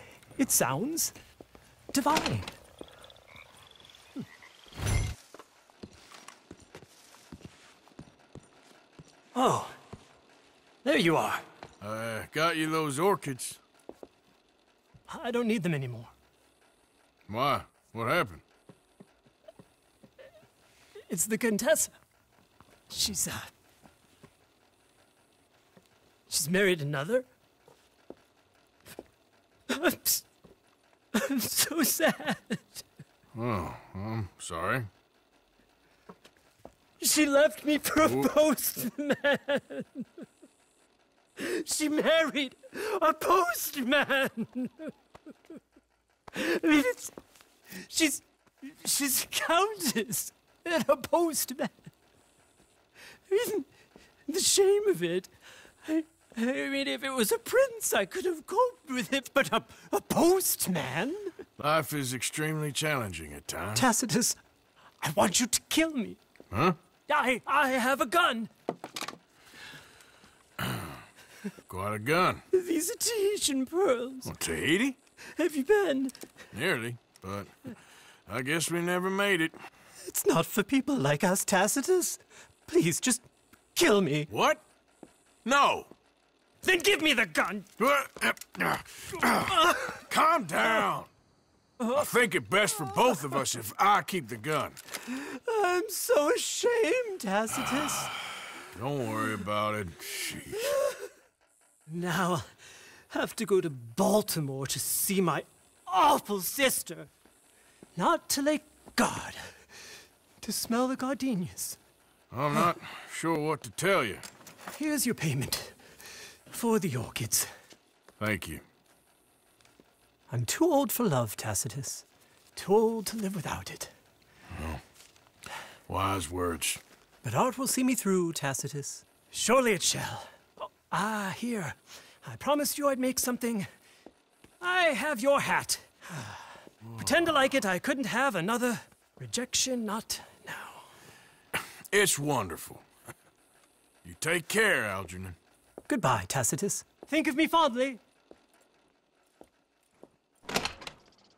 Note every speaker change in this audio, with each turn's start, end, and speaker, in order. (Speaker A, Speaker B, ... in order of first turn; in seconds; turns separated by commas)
Speaker A: 0.4-1.1, Speaker A: 1.9-2.5, Speaker A: 9.3-9.7, Speaker A: 10.8-11.4, Speaker B: 11.8-13.6, Speaker A: 15.1-16.1, Speaker B: 17.3-18.4, Speaker A: 21.1-21.9, Speaker A: 22.9-23.5, Speaker A: 26.3-27.2, Speaker A: 29.7-30.2, Speaker A: 31.1-32.8, Speaker B: 33.3-34.9, Speaker A: 37.0-40.1, Speaker B: 38.0-38.3, Speaker A: 41.4-44.9, Speaker A: 46.3-47.1, Speaker A: 47.7-51.9, Speaker A: 53.3-53.7, Speaker A: 54.3-55.3, Speaker A: 55.8-61.4, Speaker B: 61.6-63.9, Speaker A: 63.7-64.4, Speaker A: 65.0-66.2, Speaker B: 66.5-66.8, Speaker A: 67.1-68.5, Speaker B: 70.6-71.0, Speaker B: 71.7-72.4, Speaker A: 72.5-74.3, Speaker B: 74.2-75.0, Speaker A: 75.3-76.2, Speaker B: 76.5-77.7, Speaker B: 78.3-79.5, Speaker A: 80.0-84.3, Speaker B: 84.3-84.6, Speaker B: 85.4-85.9, Speaker A: 86.6-87.7, Speaker B: 87.8-91.1, Speaker A: 89.1-89.9, Speaker B: 91.9-94.8, Speaker A: 95.0-98.2, Speaker B: 98.6-100.7, Speaker A: 100.6-101.0, Speaker A: 101.9-102.5, Speaker A: 103.1-107.1, Speaker A: 107.9-109.4, Speaker A: 110.4-111.8, Speaker B: 112.3-114.2, Speaker A: 114.6-115.8, Speaker A: 116.5-117.5, Speaker B: 118.2-118.6, Speaker A: 120.3-123.9, Speaker B: 124.5-124.8, Speaker B: 125.9-126.8, Speaker A: 127.2-133.7, Speaker A: 134.6-140.9, Speaker B: 141.6-142.8, Speaker B: 144.0-145.4, Speaker A: 145.9-148.0